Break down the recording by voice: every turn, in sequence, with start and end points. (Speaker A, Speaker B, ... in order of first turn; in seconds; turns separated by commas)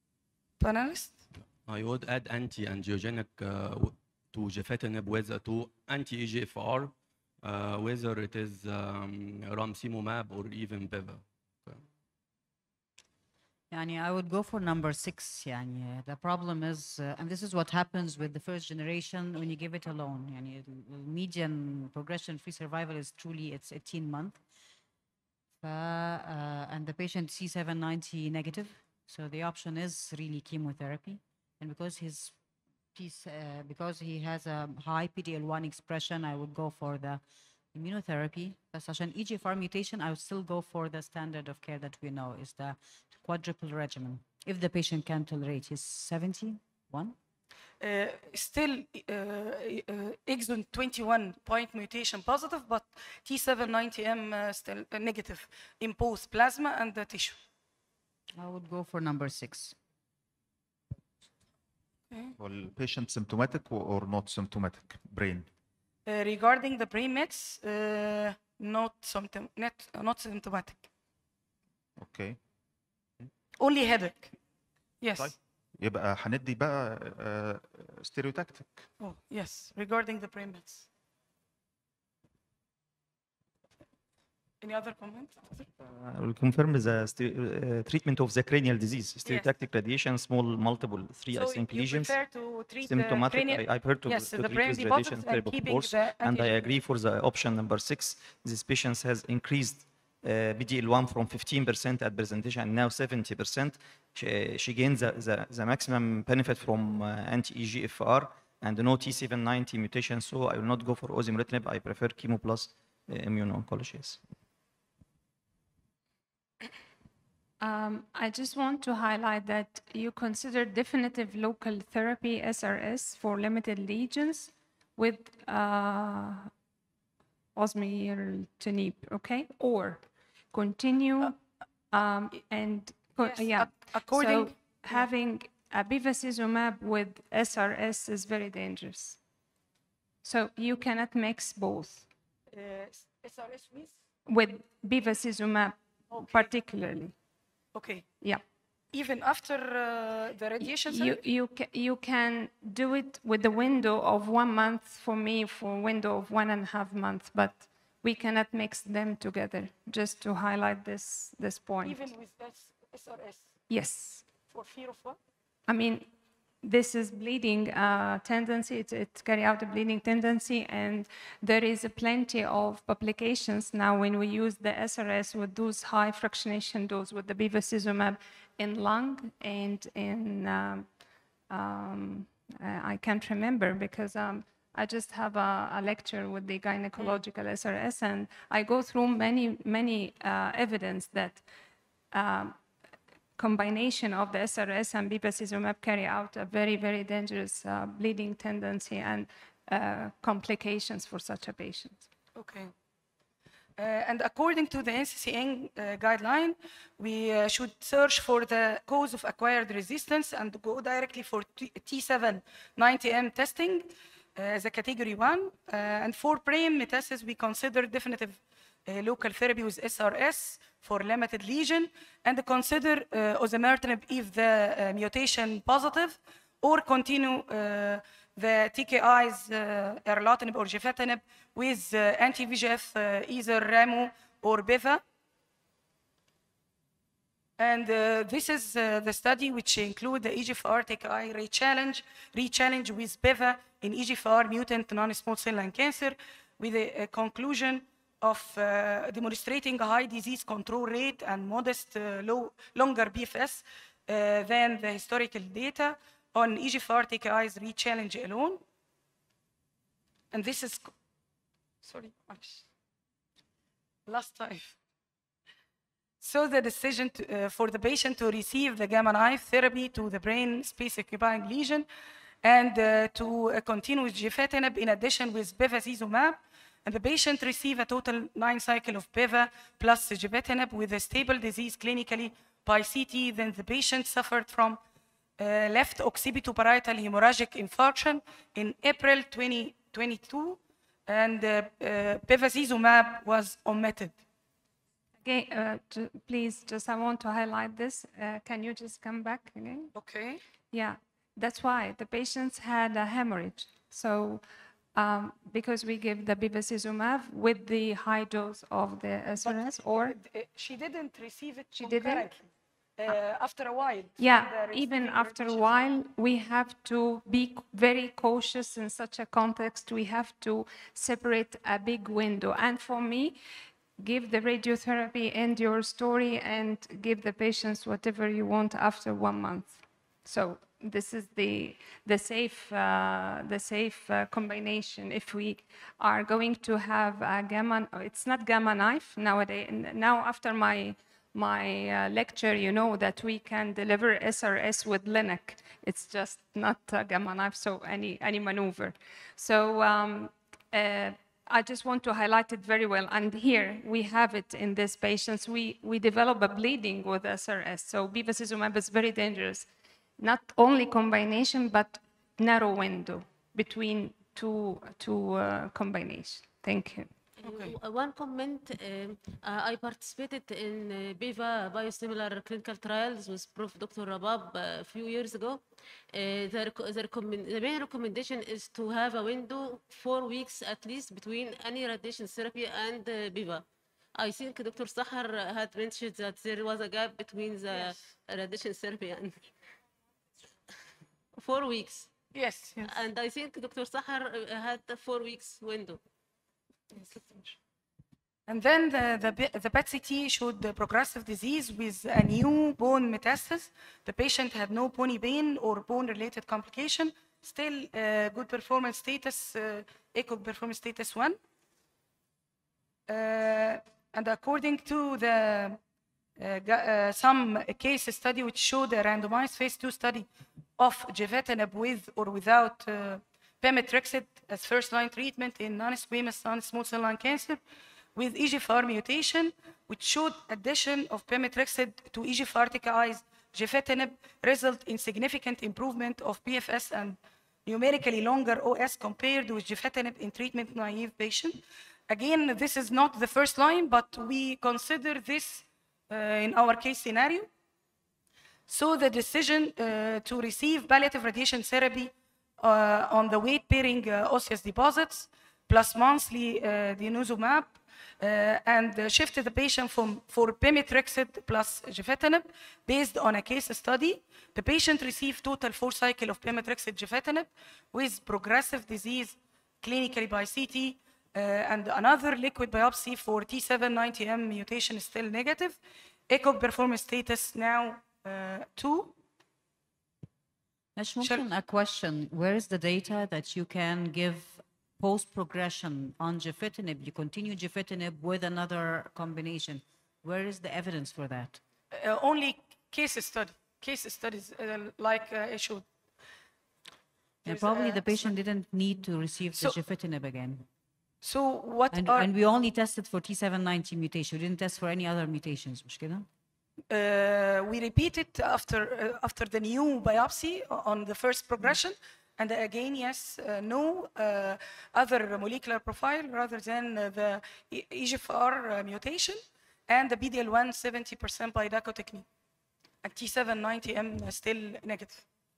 Speaker A: 0.6-1.2, Speaker B: 1.6-11.8, Speaker C: 13.7-24.4, Speaker C: 25.6-32.4, Speaker C: 32.9-37.2, Speaker C: 37.7-47.1, Speaker A: 47.8-57.4, Speaker C: 58.4-59.7, Speaker D: 62.4-65.5, Speaker A: 66.0-70.8, Speaker D: 72.0-72.4, Speaker A: 73.6-74.3, Speaker A: 75.0-75.3, Speaker D: 75.2-78.8, Speaker A: 79.0-80.8, Speaker A: 84.6-85.7, Speaker E: 85.9-92.2, Speaker A: 91.3-96.6, Speaker E: 92.8-114.2, Speaker F: 117.6-126.5, Speaker F: 127.5-131.4, Speaker F: 131.9-139.2, Speaker A: 133.1-135.1, Speaker F: 140.2-142.1, Speaker A: 142.5-143.9, Speaker F: 144.3-147.1, Speaker A: 146.1-146.5, Speaker A: 147.7-148.1, Speaker A: 148.9-151.2, Speaker F: 150.6-162.1, Speaker A: 161.8-163.5, Speaker F: 163.7-164.3, Speaker A: 164.5-165.2, Speaker F: 165.7-166.1, Speaker F: 166.6-191.5, Speaker F: 192.1-192.6, Speaker F: 193.3-202.0, Speaker A: 202.3-202.7, Speaker A: 203.8-235.0, Speaker A: 237.6-258.6, Speaker A: 260.3-260.9, Speaker A: 261.8-262.6, Speaker A: 264.1-264.8, Speaker A: 266.2-271.9, Speaker A: 272.4-284.8, Speaker A: 285.4-294.2, Speaker F: 295.2-299.9, Speaker A: 299.9-300.4, Speaker F: 300.7-310.2, Speaker A: 309.4-315.9, Speaker F: 311.8-312.3, Speaker F: 314.2-323.4, Speaker F: 324.0-367.1, Speaker A: 367.4-367.8, Speaker G: 367.4-389.5, Speaker G: 391.3-392.1, Speaker A: 392.3-393.0, Speaker G: 392.8-396.0, Speaker A: 396.9-397.5, Speaker A: 398.5-411.4, Speaker A: 413.1-415.8, Speaker A: 416.4-427.6, Speaker A: 428.1-447.5, Speaker A: 448.7-479.1, Speaker C: 480.9-491.6, Speaker A: 491.9-495.8, Speaker A: 497.4-498.3, Speaker C: 497.4-500.6, Speaker A: 501.2-502.3, Speaker C: 501.9-506.2, Speaker A: 506.9-522.2, Speaker A: 523.0-525.2